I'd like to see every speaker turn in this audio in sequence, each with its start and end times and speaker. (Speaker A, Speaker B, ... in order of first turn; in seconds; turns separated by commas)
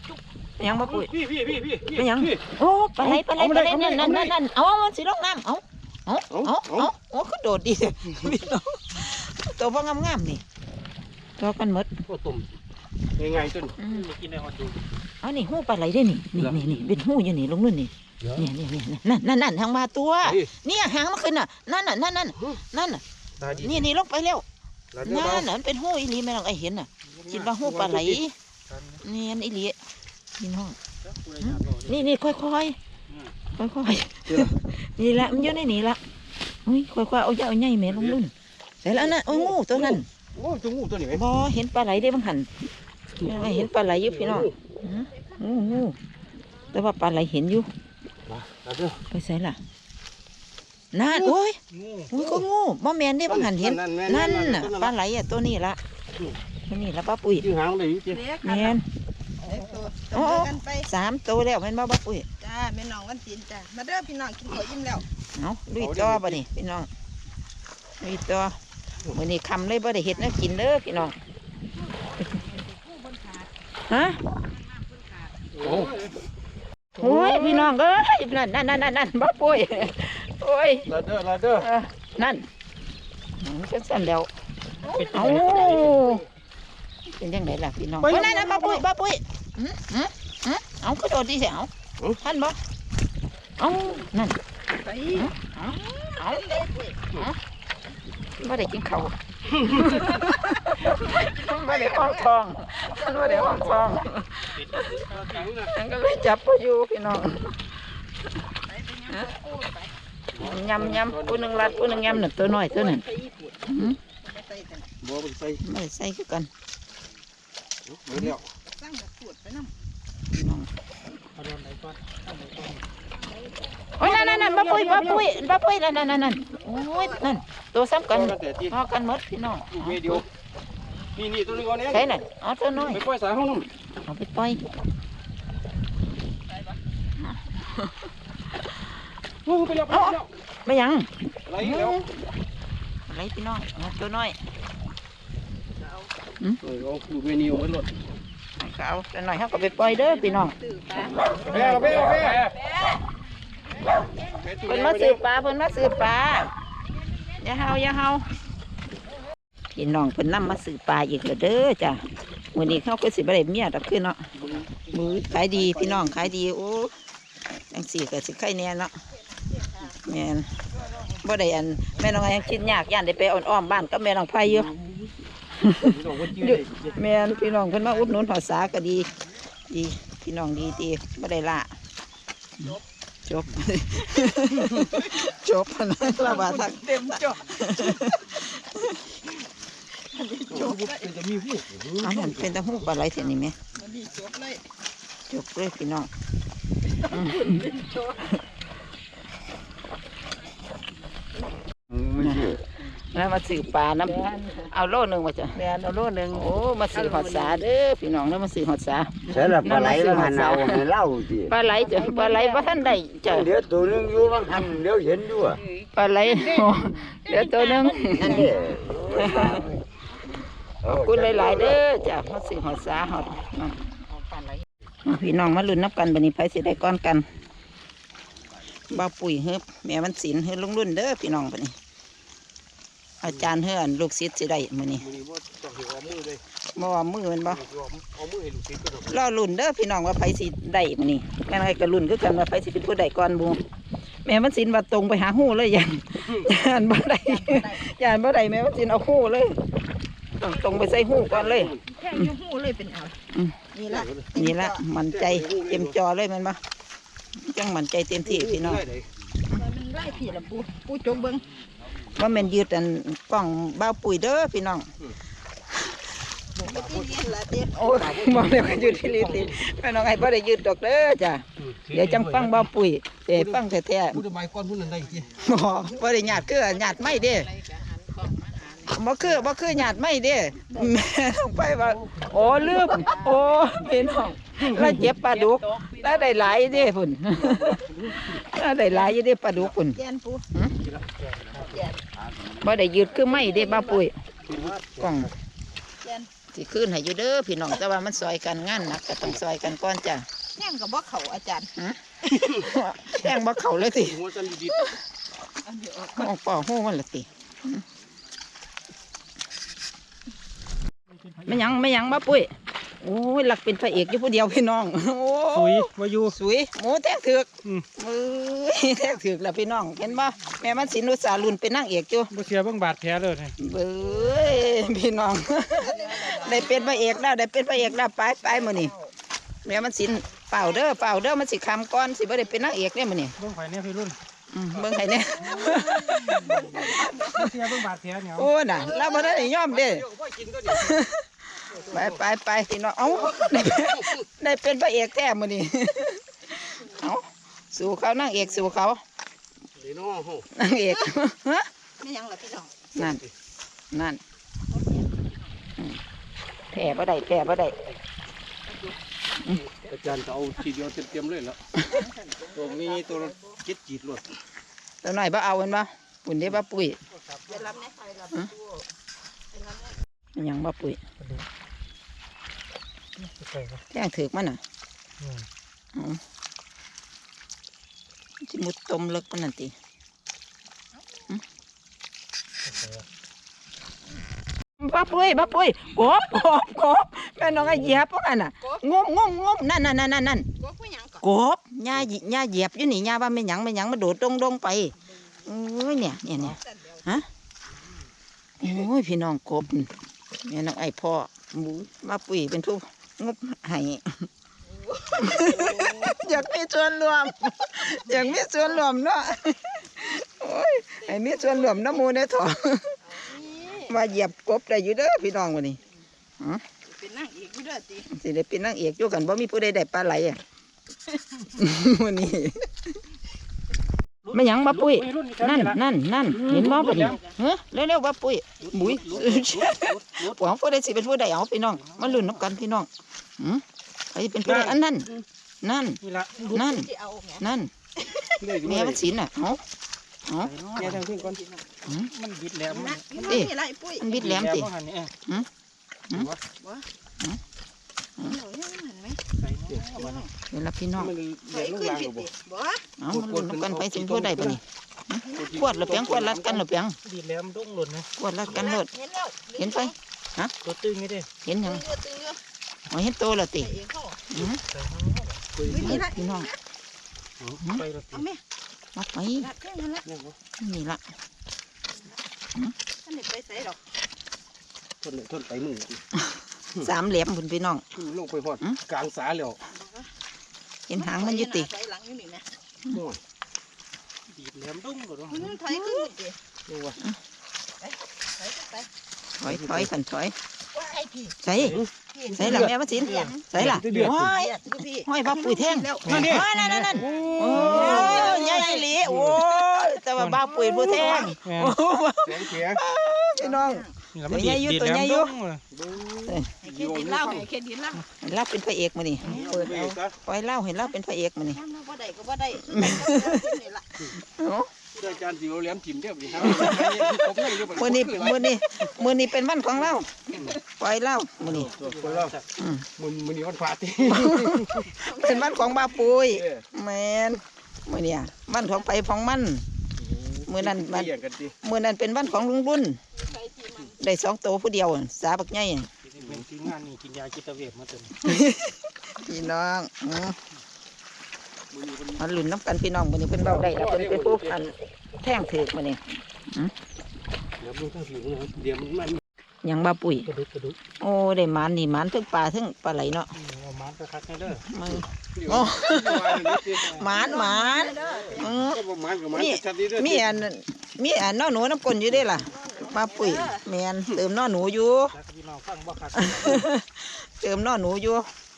Speaker A: 0.6-1.1, Speaker B: 0.9-2.5, Speaker A: 1.9-10.4, Speaker B: 3.0-4.3, Speaker B: 6.3-6.9, Speaker A: 11.4-11.9, Speaker B: 12.1-12.5, Speaker B: 13.2-13.8, Speaker A: 13.8-14.1, Speaker C: 13.8-14.9, Speaker A: 15.2-23.0, Speaker B: 16.4-16.6, Speaker C: 23.4-23.8, Speaker B: 23.4-23.9, Speaker A: 23.6-24.4, Speaker B: 24.9-25.5, Speaker A: 25.0-28.3, Speaker C: 27.1-28.1, Speaker C: 28.7-29.0, Speaker A: 29.0-29.8, Speaker A: 30.4-30.8, Speaker C: 31.0-32.1, Speaker A: 31.4-32.8, Speaker A: 33.5-36.0, Speaker B: 34.3-34.6, Speaker A: 36.6-40.1, Speaker B: 38.9-41.3, Speaker A: 41.1-42.5, Speaker B: 43.2-44.5, Speaker A: 43.2-46.0, Speaker A: 46.7-47.7, Speaker B: 48.2-49.0, Speaker A: 49.1-49.6, Speaker A: 50.9-51.6, Speaker C: 51.7-52.1, Speaker A: 52.1-55.8, Speaker B: 53.3-54.9, Speaker A: 56.7-57.5, Speaker B: 57.4-58.2, Speaker D: 58.1-58.8, Speaker A: 58.4-58.8, Speaker D: 59.4-60.9, Speaker A: 60.1-62.2, Speaker D: 62.4-65.0, Speaker A: 65.3-66.9, Speaker B: 65.8-66.4, Speaker A: 68.0-68.6, Speaker A: 69.1-71.2, Speaker D: 71.8-73.5, Speaker A: 73.9-74.2, Speaker D: 74.7-75.3, Speaker B: 75.5-76.1, Speaker A: 77.0-80.9, Speaker B: 77.0-77.5, Speaker B: 80.8-81.7, Speaker A: 81.6-82.5, Speaker A: 83.4-84.3, Speaker D: 84.8-85.7, Speaker C: 84.9-85.7, Speaker A: 85.1-86.2, Speaker B: 85.4-86.2, Speaker A: 87.2-92.6, Speaker C: 88.0-88.8, Speaker A: 93.6-94.4, Speaker D: 94.7-97.0, Speaker A: 95.2-96.5, Speaker A: 98.4-99.1, Speaker A: 99.7-104.8, Speaker D: 99.8-102.4, Speaker D: 102.9-103.8, Speaker B: 103.4-103.9, Speaker C: 104.5-105.5, Speaker B: 105.1-105.7, Speaker A: 105.7-107.7, Speaker D: 108.6-109.9, Speaker B: 110.3-112.5, Speaker A: 110.4-113.0, Speaker D: 112.5-114.9, Speaker A: 113.7-114.0, Speaker B: 115.0-115.6, Speaker A: 115.6-116.5, Speaker B: 117.8-118.5, Speaker D: 118.6-119.7, Speaker A: 120.3-120.7, Speaker C: 121.3-122.8, Speaker D: 123.1-123.6, Speaker A: 124.0-130.2, Speaker B: 124.0-125.2, Speaker D: 126.4-127.4, Speaker B: 128.1-128.8, Speaker B: 129.7-130.2, Speaker B: 131.1-132.1, Speaker A: 131.9-133.0, Speaker B: 132.7-133.7, Speaker A: 134.0-134.6, Speaker A: 137.2-138.1, Speaker B: 139.4-140.3, Speaker A: 139.9-142.1, Speaker B: 141.4-142.1, Speaker A: 143.1-144.4, Speaker B: 146.6-147.9, Speaker A: 148.6-150.5, Speaker D: 149.8-152.9, Speaker B: 151.3-152.6, Speaker A: 151.4-152.4, Speaker D: 153.8-154.4, Speaker B: 154.4-155.2, Speaker A: 154.7-156.5, Speaker A: 157.4-158.2, Speaker A: 159.7-162.0, Speaker A: 162.5-164.2, Speaker B: 164.3-166.3, Speaker A: 164.9-166.9, Speaker A: 167.7-168.9, Speaker D: 169.1-170.0, Speaker A: 169.9-170.5, Speaker A: 171.2-174.7, Speaker B: 174.5-175.1, Speaker A: 175.6-181.7, Speaker B: 175.8-177.0, Speaker A: 183.2-188.9, Speaker D: 186.2-187.6, Speaker D: 190.1-191.1, Speaker B: 190.5-192.8, Speaker A: 192.0-193.6, Speaker D: 193.7-194.6, Speaker A: 195.3-196.1, Speaker D: 196.9-198.4, Speaker A: 197.1-197.6, Speaker E: 201.9-202.6, Speaker A: 202.2-202.5, Speaker A: 203.1-210.9, Speaker E: 209.3-211.5, Speaker A: 211.4-213.5, Speaker D: 211.8-212.6, Speaker E: 213.3-215.6, Speaker D: 215.6-218.8, Speaker A: 215.9-219.7, Speaker E: 218.2-219.7, Speaker E: 220.8-221.6, Speaker A: 220.9-223.8, Speaker A: 225.0-227.3, Speaker A: 228.9-231.7, Speaker A: 233.2-235.1, Speaker B: 233.2-233.5, Speaker B: 235.0-236.4, Speaker A: 236.7-237.6, Speaker B: 237.4-239.2, Speaker A: 239.1-243.6, Speaker A: 244.2-249.6, Speaker D: 247.2-247.8, Speaker A: 250.4-252.3, Speaker B: 250.9-251.8, Speaker D: 251.9-253.2, Speaker A: 253.3-253.6, Speaker D: 253.7-254.8, Speaker B: 253.9-254.3, Speaker A: 254.3-256.6, Speaker B: 255.1-255.9, Speaker A: 257.4-258.8, Speaker B: 258.2-259.1, Speaker D: 259.5-261.4, Speaker A: 262.1-264.9, Speaker B: 266.6-269.7, Speaker D: 266.6-267.8, Speaker A: 267.7-274.2, Speaker B: 271.6-272.7, Speaker B: 273.3-275.4, Speaker A: 275.4-277.5, Speaker D: 276.3-279.0, Speaker A: 278.9-290.0, Speaker D: 280.7-280.9, Speaker D: 282.6-283.6, Speaker B: 284.6-285.1, Speaker C: 285.3-286.9, Speaker B: 287.3-288.4, Speaker D: 289.9-290.4, Speaker B: 290.8-291.6, Speaker C: 291.2-291.7, Speaker D: 291.7-292.0, Speaker A: 292.5-294.1, Speaker D: 293.1-294.1, Speaker B: 294.5-294.9, Speaker C: 294.5-295.3, Speaker A: 295.0-295.3, Speaker D: 296.0-296.3, Speaker A: 296.5-300.2, Speaker D: 300.6-301.7, Speaker A: 301.8-304.2, Speaker B: 303.9-304.9, Speaker D: 305.6-306.3, Speaker A: 306.2-307.8, Speaker C: 311.1-311.8, Speaker A: 311.5-322.3, Speaker C: 315.5-316.4, Speaker C: 322.3-323.5, Speaker A: 323.6-328.9, Speaker D: 324.1-324.9, Speaker D: 325.8-327.2, Speaker D: 328.5-328.9, Speaker A: 329.6-333.3, Speaker D: 330.4-331.2, Speaker C: 333.4-334.2, Speaker A: 334.5-336.4, Speaker C: 335.4-338.5, Speaker D: 335.4-337.4, Speaker A: 338.4-340.0, Speaker D: 338.7-339.4, Speaker B: 338.8-341.0, Speaker A: 340.7-341.2, Speaker B: 341.9-342.1, Speaker A: 341.9-349.0, Speaker B: 343.1-344.2, Speaker B: 349.8-350.5, Speaker A: 350.5-351.7, Speaker D: 352.0-352.8, Speaker A: 352.9-353.2, Speaker B: 353.0-353.3, Speaker A: 353.9-354.2, Speaker D: 354.7-355.5, Speaker A: 356.7-357.8, Speaker D: 358.6-359.0, Speaker B: 359.8-361.8, Speaker D: 361.8-363.3, Speaker B: 362.5-364.3, Speaker A: 365.0-367.0, Speaker C: 367.1-367.6, Speaker D: 367.5-368.8, Speaker D: 369.5-369.9, Speaker A: 370.4-371.0, Speaker C: 371.2-371.4, Speaker C: 373.2-373.8, Speaker A: 373.9-374.6, Speaker C: 375.2-375.4, Speaker A: 375.9-376.2, Speaker A: 378.4-379.7, Speaker C: 382.6-383.0, Speaker A: 384.8-390.5, Speaker C: 387.5-387.8, Speaker D: 388.6-388.9, Speaker D: 390.6-391.2, Speaker A: 391.2-394.9, Speaker A: 395.4-397.2, Speaker D: 396.3-397.2, Speaker A: 398.6-399.9, Speaker A: 400.4-404.3, Speaker D: 404.7-406.2, Speaker A: 405.1-412.9, Speaker D: 411.0-412.0, Speaker D: 413.1-414.0, Speaker A: 413.9-415.8, Speaker D: 416.8-418.1, Speaker A: 418.1-420.4, Speaker A: 421.5-422.8, Speaker C: 424.2-425.8, Speaker A: 424.3-432.9, Speaker C: 426.4-427.2, Speaker B: 426.4-427.0, Speaker C: 428.6-430.4, Speaker B: 429.1-429.7, Speaker C: 431.7-432.4, Speaker A: 433.4-435.1, Speaker C: 434.4-434.8, Speaker A: 435.6-436.0, Speaker C: 436.0-436.6, Speaker D: 436.4-437.4, Speaker A: 436.5-436.9, Speaker A: 437.4-437.7, Speaker B: 438.4-439.0, Speaker A: 438.6-439.6, Speaker A: 440.3-440.5, Speaker C: 440.4-441.0, Speaker B: 440.8-441.4, Speaker D: 441.1-441.6, Speaker A: 441.9-442.1, Speaker C: 442.1-443.4, Speaker D: 442.7-444.1, Speaker A: 443.2-444.7, Speaker C: 444.1-445.1, Speaker B: 446.1-446.4, Speaker D: 446.6-446.8, Speaker D: 448.2-449.2, Speaker C: 449.4-450.2, Speaker D: 450.0-450.3, Speaker A: 450.5-451.1, Speaker B: 451.0-452.3, Speaker D: 451.5-452.9, Speaker A: 453.0-457.0, Speaker B: 453.1-454.6, Speaker B: 455.4-456.6, Speaker C: 457.0-458.1, Speaker A: 458.2-458.9, Speaker D: 458.5-459.9, Speaker A: 459.6-460.5, Speaker C: 460.6-461.3, Speaker A: 461.4-461.9, Speaker D: 461.6-462.4, Speaker A: 462.9-463.7, Speaker D: 463.6-464.2, Speaker A: 464.3-464.6, Speaker C: 464.4-465.5, Speaker B: 465.5-466.0, Speaker D: 465.7-466.5, Speaker A: 465.7-466.5, Speaker C: 467.6-468.2, Speaker D: 468.1-468.4, Speaker A: 468.9-469.5, Speaker D: 469.4-470.1, Speaker B: 470.1-470.4, Speaker A: 470.6-471.0, Speaker D: 473.0-473.8, Speaker B: 475.0-476.0, Speaker A: 476.8-477.8, Speaker B: 477.9-479.6, Speaker D: 479.7-480.1, Speaker A: 480.9-481.7, Speaker D: 480.9-482.4, Speaker B: 482.9-483.2, Speaker C: 484.3-485.5, Speaker D: 485.3-486.4, Speaker B: 486.7-487.0, Speaker D: 487.8-488.9, Speaker A: 489.4-490.3, Speaker B: 489.4-489.9, Speaker D: 490.7-491.4, Speaker A: 491.4-491.8, Speaker B: 491.6-492.7, Speaker D: 492.1-493.3, Speaker A: 492.3-505.3, Speaker C: 493.0-493.8, Speaker B: 493.5-494.3, Speaker D: 494.0-496.4, Speaker C: 496.0-498.7, Speaker D: 497.0-498.9, Speaker B: 497.4-498.3, Speaker B: 499.1-499.4, Speaker C: 500.2-500.4, Speaker B: 500.6-501.3, Speaker C: 501.3-501.8, Speaker B: 502.2-502.8, Speaker D: 503.4-503.9, Speaker C: 504.1-505.6, Speaker B: 505.7-507.5, Speaker D: 506.6-508.0, Speaker A: 508.2-511.6, Speaker B: 509.2-510.1, Speaker C: 509.3-509.5, Speaker D: 511.5-514.0, Speaker A: 512.7-513.3, Speaker A: 514.1-514.7, Speaker B: 514.9-518.5, Speaker A: 516.4-517.1, Speaker A: 517.6-521.7, Speaker C: 521.4-522.4, Speaker B: 521.4-522.4, Speaker A: 522.6-522.9, Speaker B: 523.0-524.9, Speaker A: 524.1-529.6, Speaker D: 524.9-526.0, Speaker B: 526.3-526.6, Speaker B: 530.0-531.5, Speaker A: 530.5-533.0, Speaker D: 533.1-533.9, Speaker A: 534.0-535.9, Speaker C: 536.0-538.2, Speaker B: 536.2-536.4, Speaker A: 538.2-540.4, Speaker B: 541.7-542.3, Speaker A: 542.2-546.7, Speaker B: 543.4-544.7, Speaker B: 547.6-549.2, Speaker A: 549.6-550.3, Speaker C: 550.2-550.8, Speaker A: 551.0-553.3, Speaker C: 553.3-554.6, Speaker A: 554.6-565.1, Speaker B: 555.3-557.0, Speaker C: 556.0-557.1, Speaker D: 557.1-558.5, Speaker B: 558.2-560.3, Speaker D: 562.3-563.6, Speaker C: 565.1-566.6, Speaker A: 566.1-568.3